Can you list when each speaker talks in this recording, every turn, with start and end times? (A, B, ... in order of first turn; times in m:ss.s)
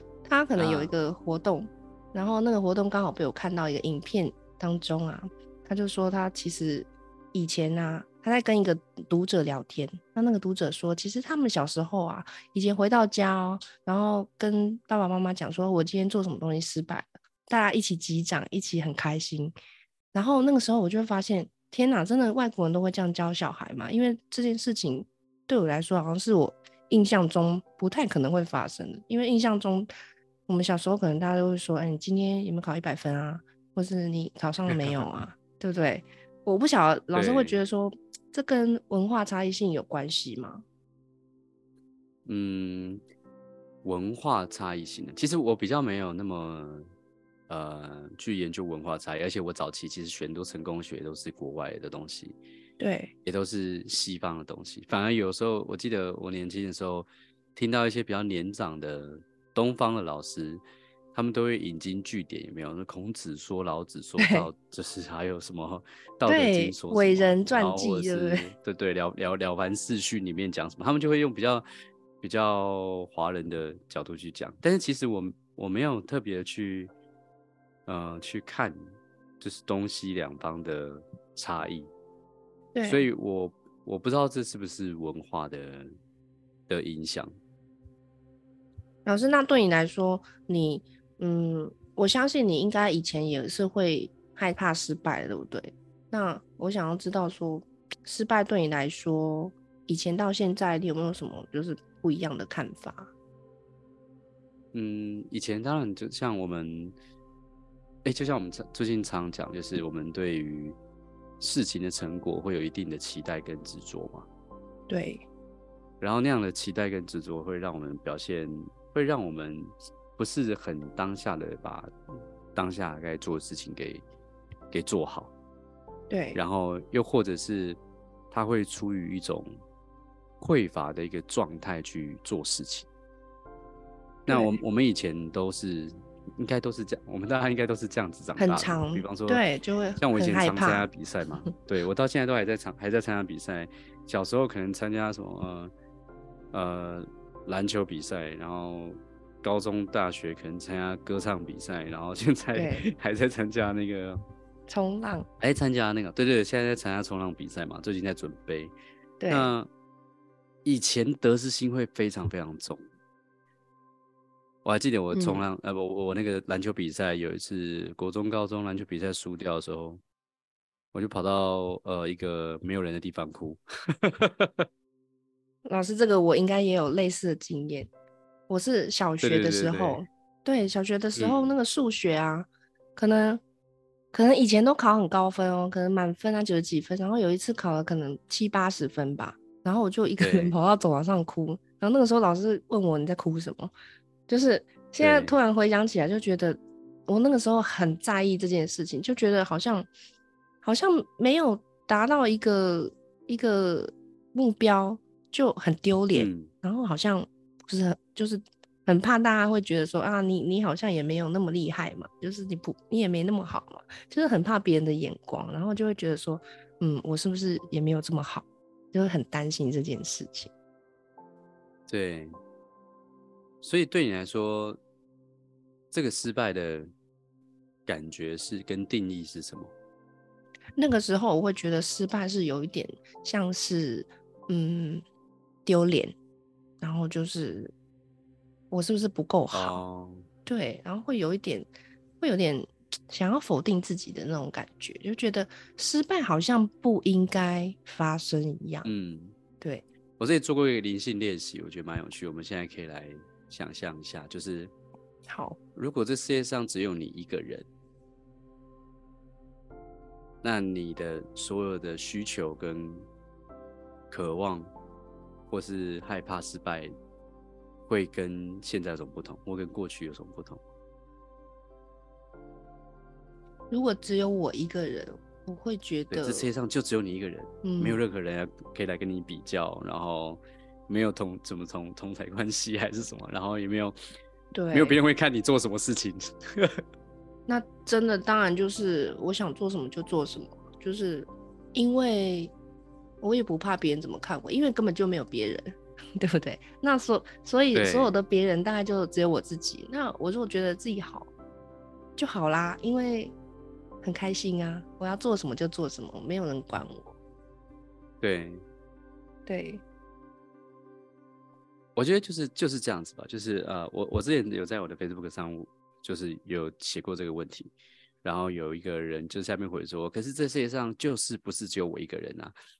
0:00.2-0:19.5 A
0:00.6-0:00.9 B
0:20.1-0:29.9 A
0:30.5-0:40.6 A
0:34.7-0:35.1 B
0:37.1-0:37.6 B
0:42.3-0:43.0 B
0:43.8-0:46.9 B
0:47.5-0:52.4 B
0:52.8-0:53.1 A
0:53.2-1:00.6 B
1:01.1-1:11.7 B
1:04.2-1:04.5 A
1:06.3-1:08.5 A
1:12.2-1:16.9 B
1:17.9-1:18.8 B
1:19.4-1:21.9 B
1:22.8-1:23.1 A
1:22.8-1:25.9 B
1:26.7-1:27.4 B
1:29.0-1:43.1 A
1:44.7-1:47.0 B
1:48.0-1:50.8 B
1:51.4-1:54.3 B
1:54.9-1:55.2 A
1:56.0-2:01.9 B
2:02.6-2:04.0 B
2:04.7-2:05.3 B
2:06.1-2:06.4 A
2:06.3-2:07.8 B
2:08.3-2:09.6 B
2:10.4-2:12.9 B
2:14.3-2:19.4 B
2:14.3-2:14.6 A
2:18.4-2:20.9 A
2:20.0-2:25.7 B
2:26.5-2:34.2 B
2:32.6-2:32.8 A
2:34.7-2:35.3 A
2:35.4-2:38.7 B
2:39.2-2:39.5 A
2:39.3-2:39.7 B
2:40.6-2:42.8 B
2:44.6-2:50.0 B
2:45.1-2:45.4 A
2:50.9-2:54.7 B
2:55.6-2:57.9 A
2:58.5-3:03.4 A
2:59.2-3:00.0 B
3:01.2-3:01.6 B
3:04.1-3:13.7 A
3:10.2-3:10.6 B
3:14.3-3:19.9 A
3:15.0-3:15.3 B
3:20.6-3:40.5 A
3:26.1-3:26.5 B
3:41.9-3:42.4 B
3:43.6-3:44.8 B
3:45.9-3:46.9 B
3:47.9-3:49.7 B
3:50.8-3:55.0 A
3:55.7-3:56.1 A
3:56.8-3:57.7 A
3:58.7-3:59.8 A
3:59.5-4:00.3 B
4:00.5-4:01.7 A
4:02.2-4:08.9 A
4:08.8-4:09.4 B
4:10.2-4:14.7 B
4:15.3-4:15.6 A
4:15.8-4:17.7 B
4:20.4-4:23.1 B
4:24.1-4:24.7 B
4:25.5-4:26.9 B
4:27.9-4:30.6 B
4:33.7-4:36.4 A
4:36.1-4:44.0 B
4:37.6-4:38.0 A
4:44.5-4:45.0 A
4:44.7-4:46.8 B
4:47.5-4:52.5 A
4:53.2-5:01.3 A
4:57.7-4:58.1 B
5:02.2-5:03.4 A
5:04.0-5:07.1 A
5:08.2-5:08.6 B
5:09.5-5:09.8 A
5:12.0-5:17.7 B
5:18.2-5:22.5 B